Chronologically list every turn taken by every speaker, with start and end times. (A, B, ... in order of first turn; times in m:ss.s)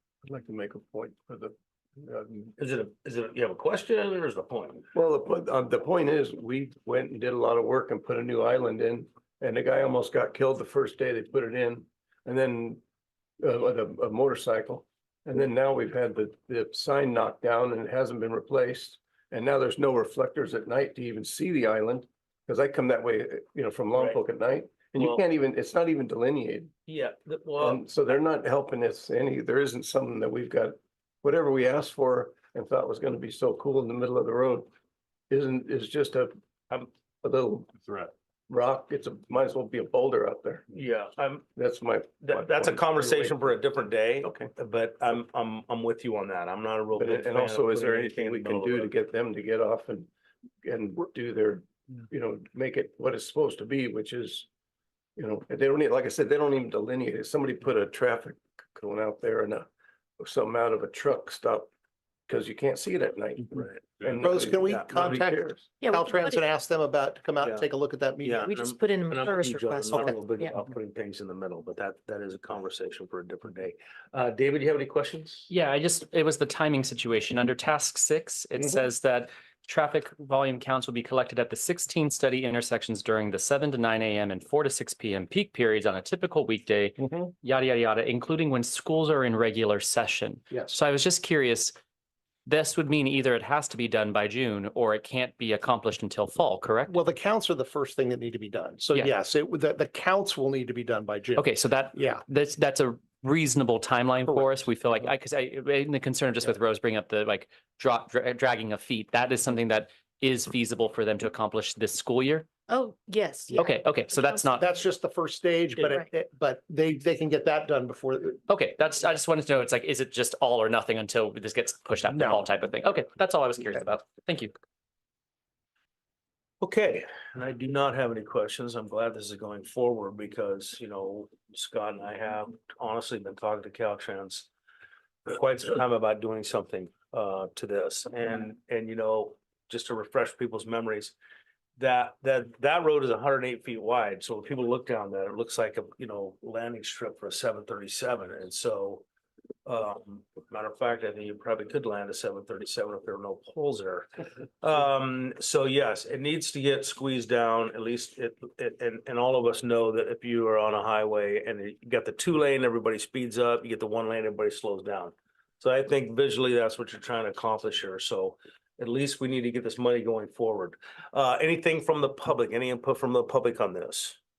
0:00.2-0:02.5 A
0:02.6-0:04.8 B
0:04.9-0:12.8 A
0:13.4-0:26.7 A
0:26.9-0:27.8 B
0:27.6-0:34.7 A
0:35.3-0:37.7 A
0:38.5-0:40.6 A
0:40.7-0:41.4 B
0:41.6-0:43.6 A
0:42.2-0:48.9 B
0:44.2-0:44.5 A
0:46.9-0:50.1 A
0:50.6-0:54.5 A
0:55.2-0:59.7 A
1:00.2-1:01.7 A
1:02.3-1:05.6 A
1:03.5-1:05.3 B
1:04.2-1:08.4 C
1:05.8-1:06.4 D
1:08.2-1:15.5 B
1:08.4-1:10.5 D
1:15.5-1:31.7 E
1:27.0-1:27.3 C
1:30.5-1:30.8 C
1:32.4-1:37.0 E
1:36.9-1:42.2 C
1:41.4-1:52.5 E
1:52.7-1:53.6 D
1:53.5-1:58.4 C
1:53.5-1:54.6 E
1:58.5-2:04.5 E
2:02.1-2:02.4 C
2:06.6-2:14.5 B
2:15.2-2:21.1 B
2:21.8-2:29.0 B
2:29.6-2:34.1 B
2:34.6-2:54.2 B